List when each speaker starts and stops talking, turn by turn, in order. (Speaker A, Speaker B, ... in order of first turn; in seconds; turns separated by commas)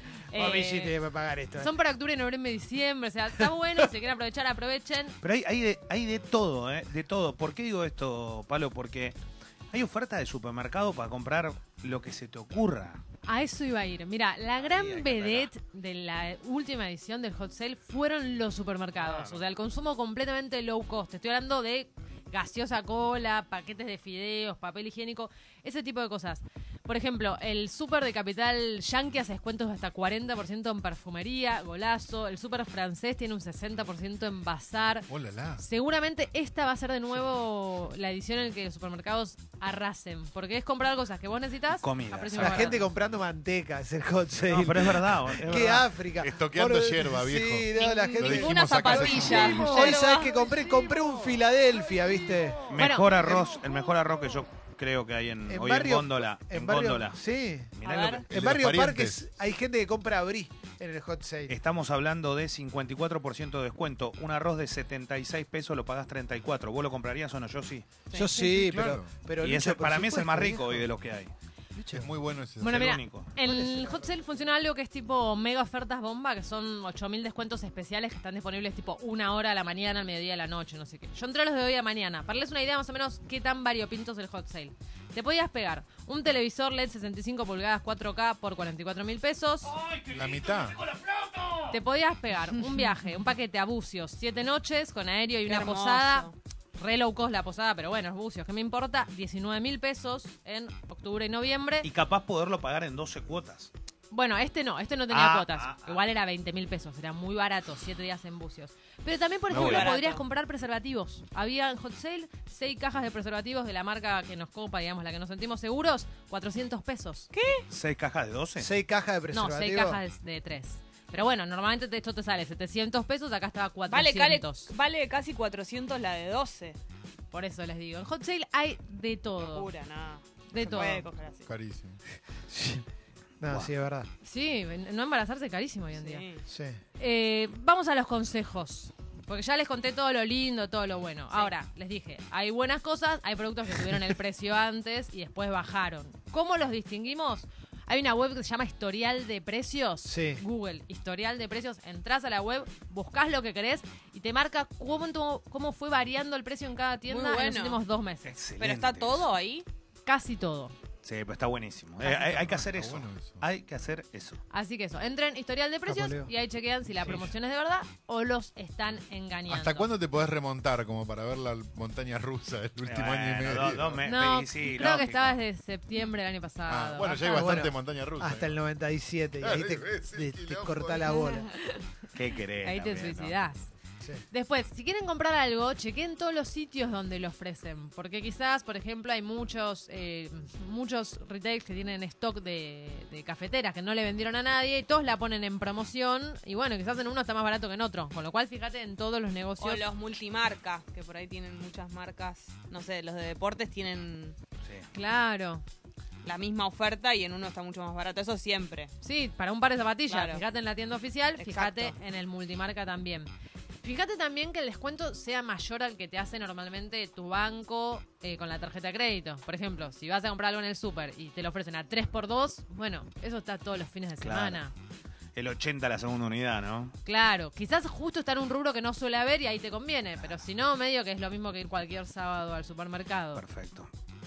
Speaker A: 0.3-1.0, Speaker B: 0.3-1.7, Speaker A: 1.6-5.2, Speaker C: 5.2-9.2, Speaker C: 9.7-13.0, Speaker A: 13.2-42.8, Speaker C: 14.6-15.5, Speaker C: 19.0-19.4, Speaker D: 35.1-35.6, Speaker C: 41.8-42.8, Speaker B: 42.4-52.7, Speaker C: 44.4-45.8, Speaker D: 45.5-49.9, Speaker E: 47.8-50.4, Speaker C: 52.7-57.2, Speaker A: 52.7-53.1, Speaker B: 55.5-57.7, Speaker C: 57.8-58.3, Speaker E: 57.8-58.3, Speaker B: 58.3-61.5, Speaker D: 58.3-59.2, Speaker C: 61.5-68.0, Speaker B: 68.1-70.9, Speaker D: 68.5-69.1, Speaker C: 69.4-71.3, Speaker B: 71.8-72.0, Speaker D: 71.8-72.9, Speaker A: 72.6-89.7, Speaker C: 72.6-73.3, Speaker B: 73.5-73.8, Speaker C: 89.6-91.8, Speaker D: 90.1-90.8, Speaker A: 91.7-101.9, Speaker E: 95.5-96.3, Speaker C: 101.8-103.7, Speaker A: 104.1-117.3, Speaker C: 105.1-106.0, Speaker C: 109.5-109.9, Speaker E: 109.5-110.2, Speaker E: 117.3-117.6, Speaker C: 117.7-118.7, Speaker B: 118.6-120.0, Speaker A: 119.3-124.7, Speaker E: 123.9-126.8, Speaker A: 127.3-129.7, Speaker E: 129.4-131.5, Speaker A: 130.5-131.0, Speaker D: 130.6-132.0, Speaker B: 132.5-132.8, Speaker B: 133.4-134.1, Speaker A: 134.2-136.2, Speaker E: 136.0-136.4, Speaker B: 136.5-136.8, Speaker A: 137.0-158.3, Speaker B: 150.0-150.4, Speaker E: 157.1-157.8, Speaker C: 158.2-159.3, Speaker E: 158.6-159.7, Speaker A: 160.1-160.7, Speaker C: 161.0-164.4, Speaker A: 162.0-162.3, Speaker D: 162.3-163.4, Speaker A: 164.5-169.9, Speaker B: 165.9-166.3, Speaker D: 169.5-174.1, Speaker C: 172.8-175.4, Speaker A: 174.0-177.7, Speaker D: 176.7-178.6, Speaker B: 177.2-181.5, Speaker D: 179.4-181.2, Speaker C: 182.1-183.3, Speaker A: 182.6-183.7, Speaker A: 184.3-199.8, Speaker E: 199.6-204.4, Speaker A: 204.9-205.6, Speaker E: 206.2-208.9, Speaker A: 209.0-213.3, Speaker E: 210.1-210.4, Speaker E: 211.4-211.9, Speaker A: 213.8-224.7, Speaker C: 224.2-224.7, Speaker C: 225.3-226.9, Speaker A: 227.0-233.4, Speaker C: 233.3-233.9